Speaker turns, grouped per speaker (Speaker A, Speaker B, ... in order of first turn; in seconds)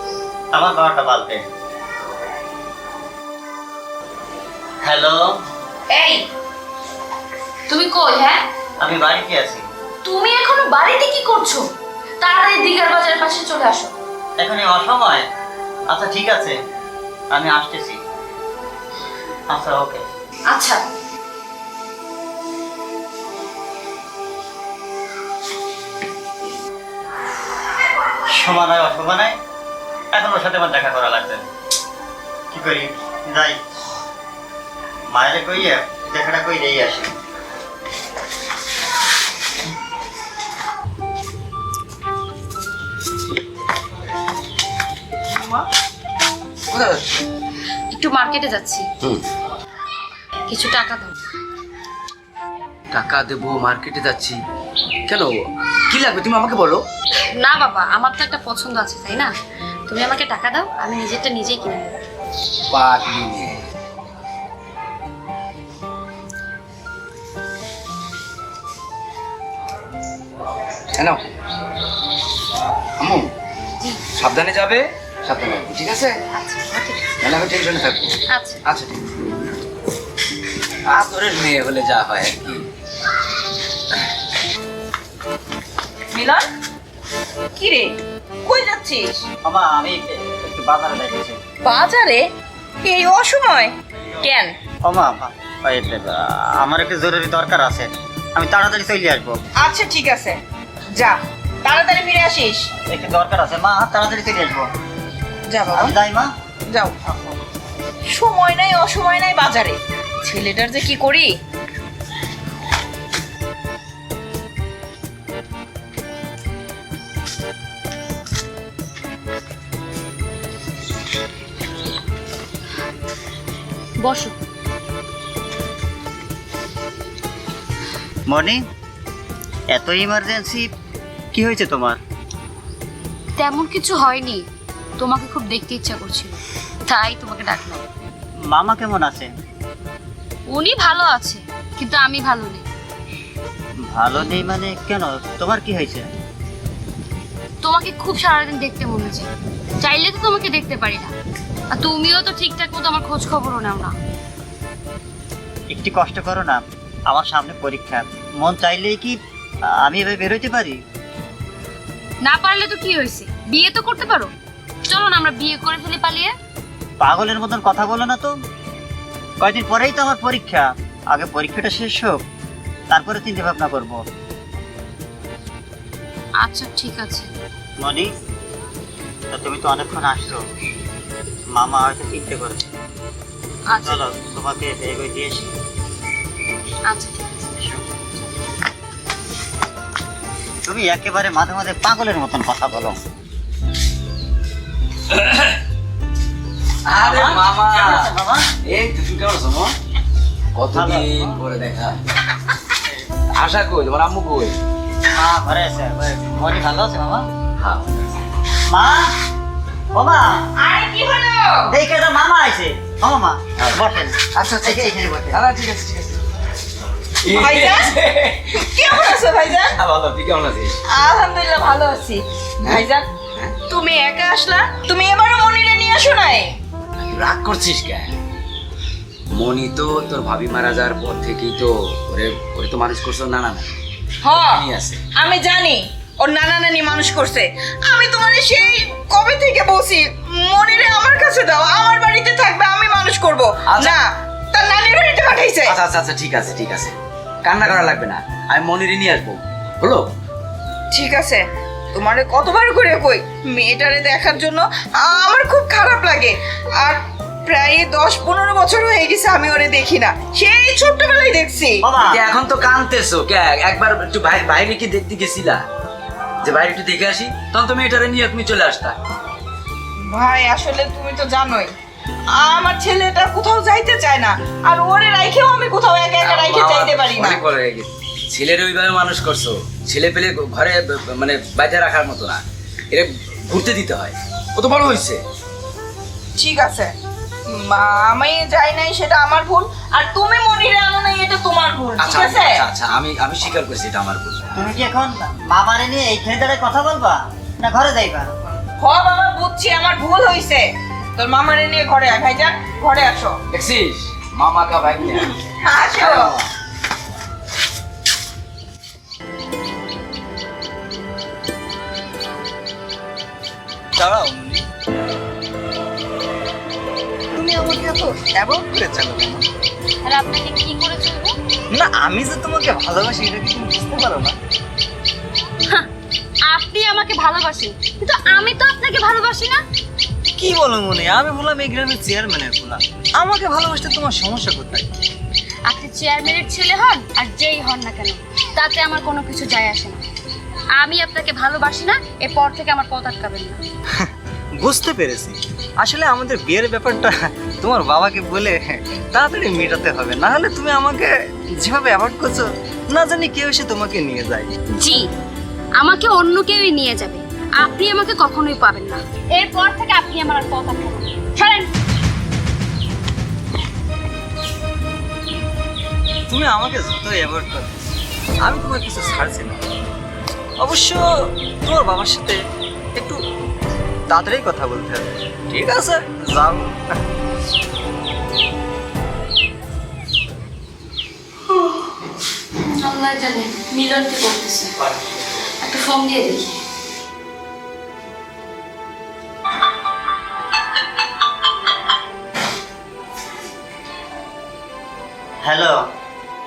Speaker A: 0.5-1.4, 4.8-5.4, 8.8-9.6, 14.4-15.3, 15.9-16.6, 17.3-18.0, 19.5-20.0, 28.3-29.4, 30.1-31.4, 32.5-33.6, 35.1-37.1, 89.4-91.4, 94.8-99.4, 102.8-104.7, 105.7-106.3, 128.3-128.6, 129.7-130.7, 131.3-132.0, 138.5-139.3, 143.8-146.1, 155.7-160.8, 167.0-168.3, 169.4-172.2, 172.9-174.0, 177.8-178.1, 179.3-180.4, 181.5-182.7, 183.8-185.5, 190.6-193.0, 197.0-198.5, 200.7-201.3, 205.1-207.3, 208.7-209.2, 209.9-210.5, 211.7-215.4, 261.8-262.3, 294.5-298.3, 395.4-395.8
Speaker B: 5.9-6.2, 7.7-8.4, 10.0-11.7, 12.2-14.0, 20.5-20.8, 47.9-48.9, 50.5-51.1, 57.4-59.3, 59.9-62.0, 76.3-77.2, 78.3-78.6, 124.0-124.3, 133.4-134.5, 135.0-137.8, 140.5-142.6, 147.6-149.3, 149.8-151.1, 151.7-153.9, 162.2-164.3, 164.8-166.3, 176.4-177.3, 183.7-184.0, 186.9-187.6, 320.0-321.4, 326.5-329.6, 335.6-340.0, 340.8-343.6, 354.8-355.1, 355.8-361.7, 382.6-384.8, 385.6-386.6
Speaker C: 46.7-47.0, 52.9-54.4, 55.1-55.3, 55.9-56.8, 62.7-63.6, 73.0-73.3, 74.2-76.2, 77.2-78.9, 80.9-82.7, 195.1-195.6, 196.8-198.1, 198.6-199.7, 200.5-202.0, 203.3-204.6, 207.6-208.1, 213.6-213.8, 214.3-216.2, 217.2-220.8, 222.6-223.5, 227.0-228.1, 229.3-233.7, 234.3-235.0, 243.7-244.0, 245.7-250.1, 262.1-265.6, 266.4-268.9, 276.2-285.2, 292.0-294.4, 303.5-305.3, 305.9-306.5
Speaker D: 86.1-86.4, 87.5-89.2, 91.6-92.3, 92.8-94.5, 99.6-100.4, 100.9-102.7, 105.5-106.0, 106.7-107.0, 108.1-111.4, 210.6-211.7, 217.3-217.9, 218.5-219.8, 220.9-223.1, 223.7-226.5, 234.2-234.6, 235.1-245.8, 250.9-261.8, 270.1-271.7, 272.3-277.4, 286.4-286.9, 287.5-292.6, 298.8-303.4, 305.2-306.3
Speaker E: 313.9-314.6, 317.3-319.4, 321.7-324.3, 330.4-334.9, 344.6-354.5, 366.3-367.7, 368.4-369.6, 370.6-372.4, 372.9-373.2, 374.1-376.8